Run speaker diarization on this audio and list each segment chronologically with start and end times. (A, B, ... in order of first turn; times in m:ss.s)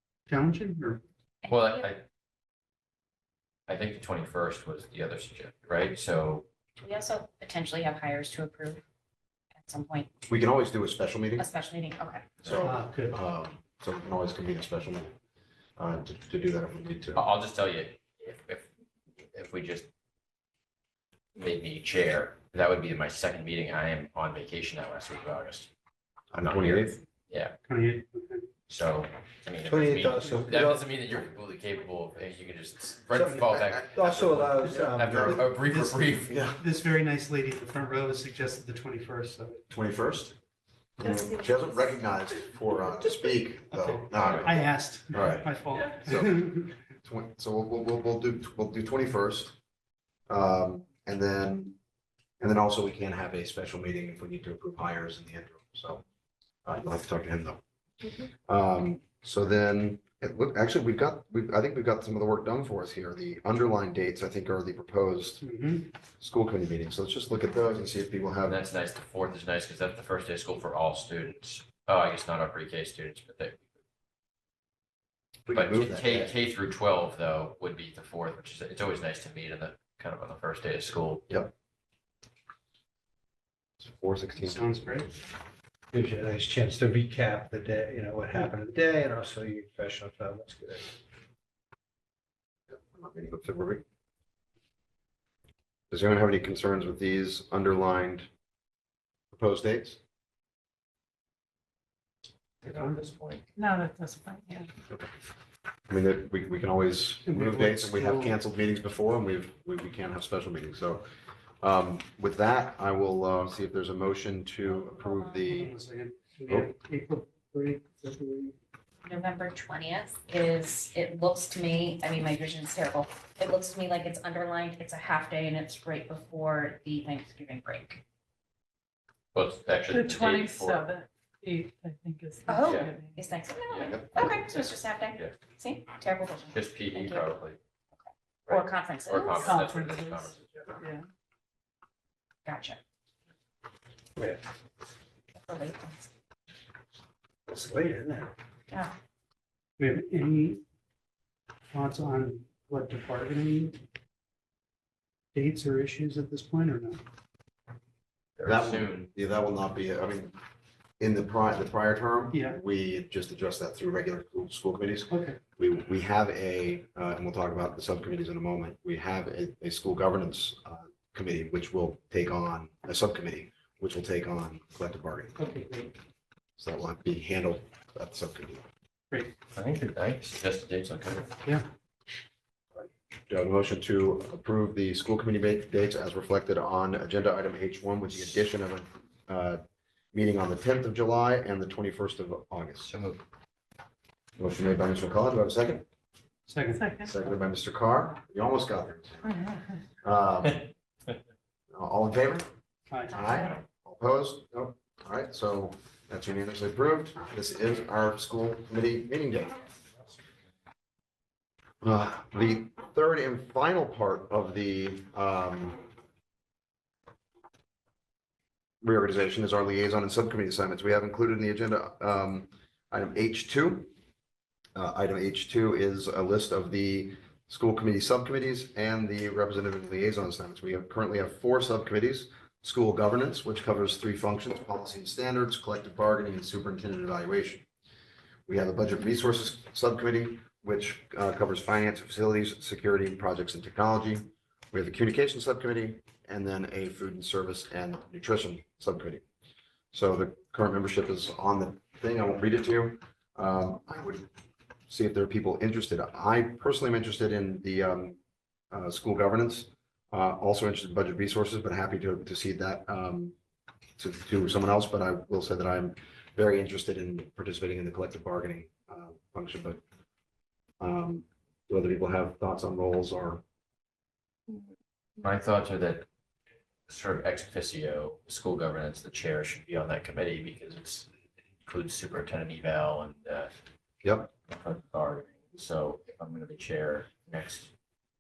0:00.3-0:01.0 A
0:01.4-0:01.9 B
0:01.5-0:02.0 C
0:03.7-0:06.4 C
0:06.8-0:08.8 B
0:09.6-0:10.1 B
0:10.3-0:11.4 D
0:11.4-0:12.3 B
0:12.4-0:15.1 D
0:12.6-0:13.2 A
0:15.8-0:17.2 D
0:17.2-0:18.7 C
0:19.3-0:19.9 C
0:21.4-0:25.7 C
0:26.3-0:27.0 D
0:26.4-0:27.6 C
0:27.6-0:28.5 A
0:28.7-0:36.4 C
0:29.6-0:30.8 E
0:33.1-0:35.4 E
0:35.0-0:36.6 D
0:36.6-0:39.6 A
0:39.7-0:40.3 D
0:41.0-0:46.4 D
0:43.8-0:46.7 A
0:44.2-0:44.5 C
0:47.0-0:49.6 D
0:50.3-0:51.8 D
0:52.4-0:56.0 D
0:56.6-0:57.6 D
0:58.5-1:05.4 D
1:05.4-1:05.9 A
1:06.2-1:08.6 D
1:08.4-1:13.7 C
1:15.5-1:16.3 D
1:15.5-1:21.3 C
1:23.8-1:24.6 D
1:24.4-1:25.1 A
1:25.9-1:30.9 E
1:32.7-1:33.8 D
1:35.9-1:38.3 D
1:39.3-1:40.0 D
1:42.6-1:43.4 C
1:43.6-1:44.7 F
1:45.9-1:51.0 D
1:47.3-1:48.4 A
1:51.6-1:55.7 D
1:54.7-1:55.4 B
1:55.4-1:58.6 A
1:59.0-2:08.0 B
2:09.3-2:10.9 C
2:09.9-2:13.3 F
2:12.5-2:17.4 B
2:12.6-2:13.0 C
2:13.7-2:15.4 C
2:16.5-2:17.6 C
2:18.0-2:19.6 B
2:18.5-2:20.8 C
2:19.2-2:21.0 F
2:22.4-2:22.8 B
2:25.4-2:26.1 B
2:27.5-2:28.3 E
2:29.8-2:30.6 A
2:31.7-2:33.8 A
2:35.3-2:37.0 A
2:38.4-2:39.1 C
2:38.4-2:40.4 D
2:41.0-2:55.4 D
2:42.3-2:42.6 A
2:45.1-2:45.4 A
2:55.4-2:55.9 A
2:56.6-2:58.6 D
2:59.5-3:01.3 C
3:02.8-3:09.6 D
3:10.1-3:12.9 D
3:12.8-3:13.2 C
3:14.4-3:15.8 D
3:16.5-3:16.9 A
3:16.7-3:17.1 F
3:17.0-3:19.4 D
3:20.0-3:20.7 D
3:20.5-3:21.2 C
3:21.7-3:22.5 D
3:22.9-3:23.2 A
3:23.1-3:29.6 D
3:31.8-3:35.8 D
3:38.8-3:43.9 D
3:44.8-3:57.7 D
3:58.5-4:09.2 D
4:09.9-4:14.3 D
4:14.9-4:18.2 D
4:18.7-4:23.4 D
4:24.0-4:29.8 D
4:30.8-4:33.4 D
4:35.2-4:36.1 C
4:36.9-4:41.1 C
4:41.6-4:43.5 C
4:44.0-4:44.3 D
4:44.3-4:47.7 C